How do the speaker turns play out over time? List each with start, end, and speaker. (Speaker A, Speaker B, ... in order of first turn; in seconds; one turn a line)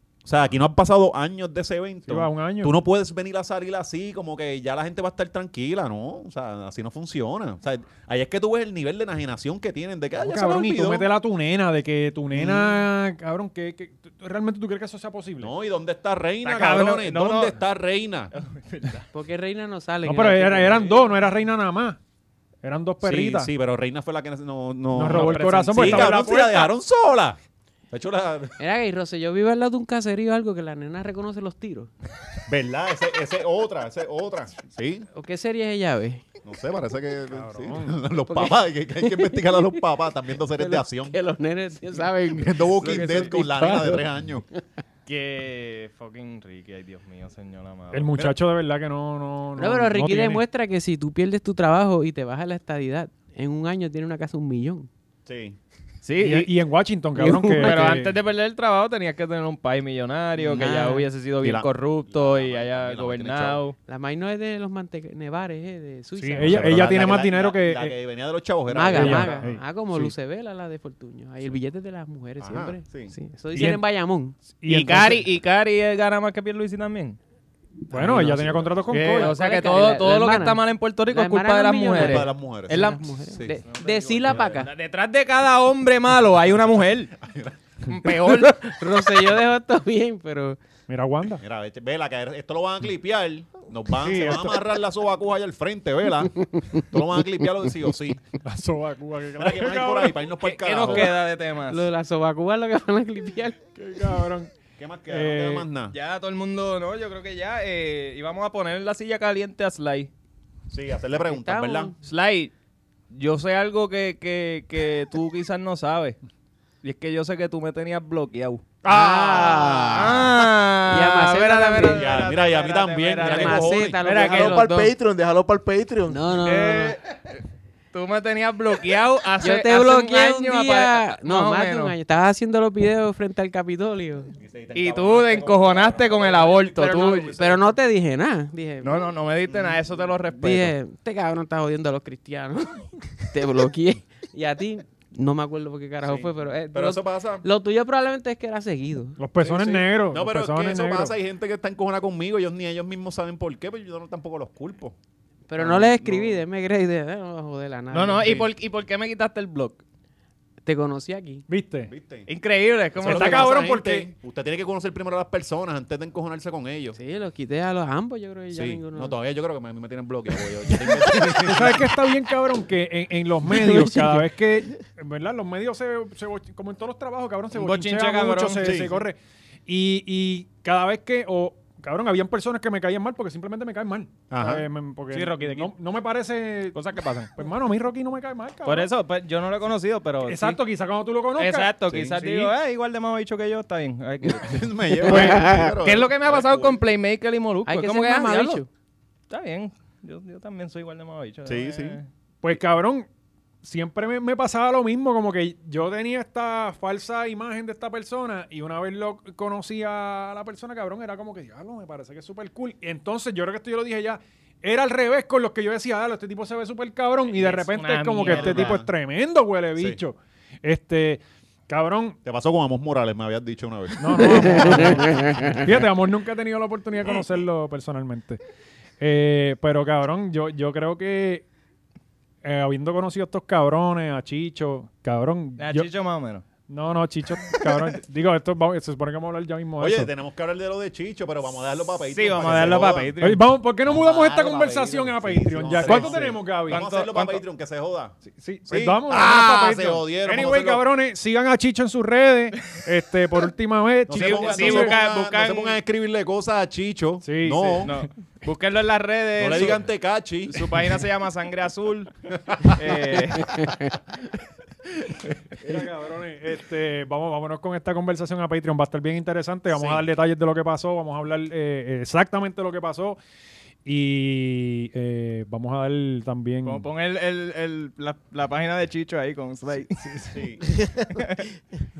Speaker A: 0.2-11.1
Speaker B: 2.1-2.7
Speaker B: 10.2-15.5
Speaker A: 12.3-12.8
Speaker A: 15.4-18.3
Speaker C: 16.4-17.6
Speaker C: 18.3-19.0
Speaker D: 19.1-21.0
Speaker B: 20.0-22.0
Speaker B: 22.6-23.5
Speaker A: 23.0-27.4
Speaker B: 24.9-26.7
Speaker C: 25.0-26.1
Speaker A: 27.9-28.5
Speaker D: 28.6-31.9
Speaker A: 32.5-35.1
Speaker D: 35.1-36.2
Speaker A: 36.4-41.1
Speaker B: 37.3-38.0
Speaker D: 38.3-39.8
Speaker D: 40.4-44.6
Speaker A: 42.3-44.4
Speaker C: 42.9-43.3
Speaker C: 45.0-48.1
Speaker B: 47.9-50.4
Speaker D: 49.6-54.9
Speaker A: 55.2-55.6
Speaker C: 56.0-56.5
Speaker B: 56.2-58.1
Speaker D: 57.1-57.9
Speaker C: 57.6-63.8
Speaker A: 60.4-60.7
Speaker D: 60.6-61.1
Speaker A: 61.4-63.6
Speaker D: 63.9-66.9
Speaker B: 66.2-68.0
Speaker A: 66.4-69.5
Speaker D: 68.7-74.5
Speaker B: 68.9-70.1
Speaker A: 72.4-73.1
Speaker B: 73.5-73.8
Speaker B: 74.5-75.2
Speaker C: 74.7-77.2
Speaker B: 77.9-79.3
Speaker D: 77.9-84.7
Speaker A: 78.2-78.7
Speaker C: 78.9-87.1
Speaker A: 82.0-83.6
Speaker A: 84.3-84.6
Speaker A: 87.1-87.9
Speaker C: 87.9-88.8
Speaker D: 88.2-90.6
Speaker B: 90.9-91.4
Speaker A: 91.4-98.2
Speaker B: 94.0-94.6
Speaker D: 96.3-96.8
Speaker B: 98.4-100.2
Speaker A: 99.4-101.2
Speaker C: 100.4-101.9
Speaker D: 101.7-103.6
Speaker B: 103.8-104.5
Speaker A: 104.8-105.9
Speaker B: 105.1-105.7
Speaker C: 105.9-110.1
Speaker A: 110.7-111.9
Speaker D: 111.2-112.0
Speaker C: 112.0-112.5
Speaker C: 113.1-116.2
Speaker C: 116.8-118.8
Speaker D: 118.8-120.2
Speaker A: 118.8-120.3
Speaker C: 119.9-124.6
Speaker D: 120.8-122.1
Speaker A: 121.8-124.0
Speaker D: 123.2-124.9
Speaker E: 124.0-126.5
Speaker D: 126.1-127.0
Speaker C: 126.6-126.9
Speaker C: 127.9-131.9
Speaker D: 129.4-134.3
Speaker A: 134.3-137.6
Speaker C: 134.7-137.4
Speaker D: 136.9-139.1
Speaker C: 138.8-140.7
Speaker A: 139.5-139.8
Speaker D: 140.3-149.2
Speaker A: 146.0-147.4
Speaker B: 149.2-151.1
Speaker A: 149.4-154.9
Speaker D: 155.5-158.4
Speaker A: 155.6-156.4
Speaker C: 157.9-159.8
Speaker D: 160.6-161.4
Speaker B: 161.5-161.9
Speaker A: 161.9-162.3
Speaker C: 162.3-163.6
Speaker A: 163.0-167.0
Speaker B: 163.0-164.1
Speaker D: 166.9-169.2
Speaker A: 168.5-171.9
Speaker B: 171.4-186.8
Speaker D: 173.5-174.3
Speaker C: 177.5-178.8
Speaker A: 178.6-179.0
Speaker A: 184.3-184.7
Speaker C: 185.1-185.7
Speaker C: 186.7-187.3
Speaker B: 187.3-188.9
Speaker C: 188.6-190.6
Speaker B: 190.2-191.7
Speaker C: 191.3-198.6
Speaker A: 191.9-192.5
Speaker A: 194.4-196.8
Speaker D: 195.0-195.8
Speaker B: 195.1-195.5
Speaker D: 197.7-198.7
Speaker C: 199.3-202.1
Speaker A: 201.4-202.0
Speaker B: 202.4-203.1
Speaker B: 203.6-222.2
Speaker C: 217.3-218.8
Speaker A: 218.3-218.9
Speaker A: 222.2-225.2
Speaker B: 224.0-228.4
Speaker D: 225.1-225.5
Speaker B: 229.0-231.4
Speaker B: 232.4-235.9
Speaker C: 235.6-236.4
Speaker B: 236.7-240.1
Speaker A: 239.8-243.1
Speaker C: 242.1-243.4
Speaker B: 243.2-246.8
Speaker A: 243.8-248.2
Speaker C: 245.8-247.4
Speaker B: 248.2-255.0
Speaker A: 248.7-250.8
Speaker A: 254.1-257.9
Speaker C: 254.1-255.8
Speaker B: 257.2-258.0
Speaker C: 257.8-259.9
Speaker A: 259.4-260.9
Speaker C: 260.5-263.7
Speaker A: 262.4-262.8
Speaker B: 265.6-273.2
Speaker C: 269.7-270.0
Speaker B: 273.8-276.8
Speaker C: 276.6-280.0
Speaker B: 280.0-280.4
Speaker A: 280.3-280.6
Speaker E: 280.6-281.4
Speaker C: 281.1-281.4